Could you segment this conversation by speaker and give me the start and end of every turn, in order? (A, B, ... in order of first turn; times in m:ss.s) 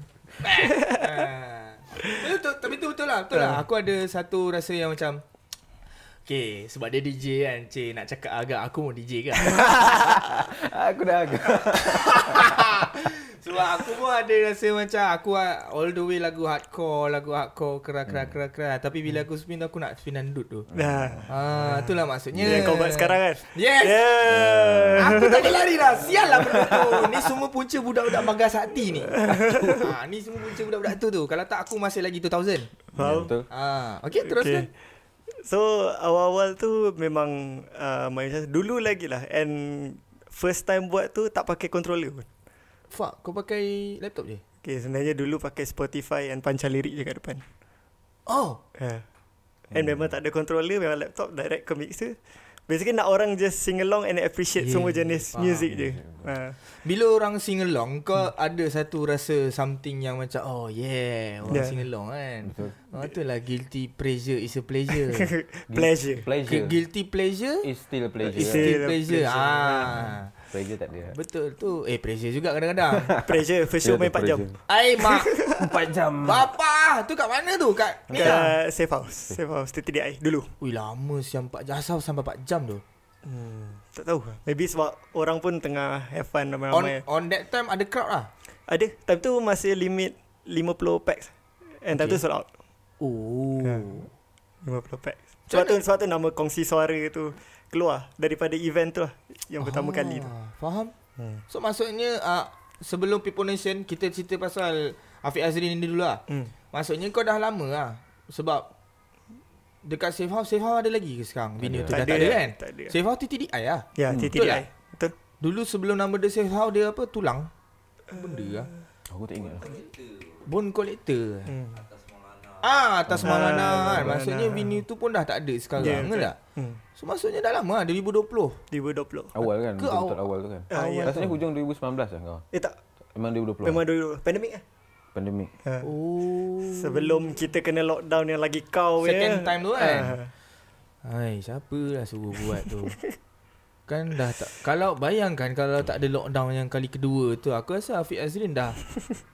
0:00.4-0:05.2 A
0:03.4-0:03.6 B
0:06.3-0:10.1 A
0:09.8-0:12.7 C
0:11.6-0:20.7 A
0:20.7-0:21.3 C
0:20.7-0:21.8 B
0:21.3-0:24.0 A
0:22.4-0:22.6 C
0:22.4-0:25.6 B
0:24.2-0:25.2 C
0:25.0-0:32.7 A
0:26.3-0:27.1 C
0:29.1-0:29.9 B
0:32.9-0:33.3 B
0:33.0-0:33.5 C
0:33.5-0:34.7 A
0:34.2-0:34.7 B
0:35.3-0:42.2 B
0:42.9-0:44.4 A
0:44.6-0:47.4 B
0:48.3-0:48.6 A
0:48.8-0:49.0 B
0:49.7-0:52.2 B
0:49.7-0:50.1 C
0:52.7-0:56.6 B
0:54.6-0:55.7 A
0:55.7-0:56.3 C
0:56.7-1:05.3 A
1:01.5-1:01.8 B
1:02.4-1:02.7 C
1:05.0-1:06.3 B
1:05.7-1:06.8 C
1:06.4-1:07.7 A
1:07.6-1:08.7 C
1:08.3-1:10.2 B
1:08.3-1:10.3 A
1:10.5-1:11.1 C
1:11.1-1:13.1 A
1:13.0-1:14.6 C
1:13.2-1:14.5 B
1:14.7-1:15.4 A
1:15.0-1:15.7 B
1:15.5-1:16.5 C
1:16.2-1:18.5 A
1:18.1-1:18.4 C
1:18.1-1:20.5 B
1:20.6-1:22.8 A
1:23.2-1:27.0 B
1:26.7-1:28.3 A
1:28.7-1:32.5 B
1:31.9-1:32.2 A
1:33.0-1:34.1 A
1:34.6-1:40.3 B
1:35.5-1:35.8 A
1:39.6-1:40.9 A
1:41.2-1:41.4 B
1:41.5-1:48.7 A
1:49.8-1:54.6 A
1:51.6-1:52.4 C
1:51.9-1:52.9 B
1:54.0-1:55.1 B
1:54.1-1:54.3 C
1:55.4-1:57.5 A
1:58.1-1:58.7 A
1:58.2-1:58.5 B
1:59.1-1:59.8 C
2:00.4-2:01.5 A
2:01.5-2:01.9 B
2:02.6-2:06.4 A
2:03.1-2:04.1 C
2:03.2-2:04.8 B
2:05.8-2:06.1 C
2:05.8-2:06.8 B
2:07.0-2:08.6 A
2:08.7-2:09.3 B
2:09.3-2:12.4 C
2:09.8-2:11.2 A
2:10.7-2:11.3 B
2:13.1-2:13.8 C
2:13.6-2:14.6 B
2:15.1-2:15.5 C
2:15.6-2:15.9 B
2:15.8-2:17.3 A
2:16.6-2:20.3 B
2:19.0-2:20.2 A
2:21.0-2:23.0 A
2:23.9-2:28.8 A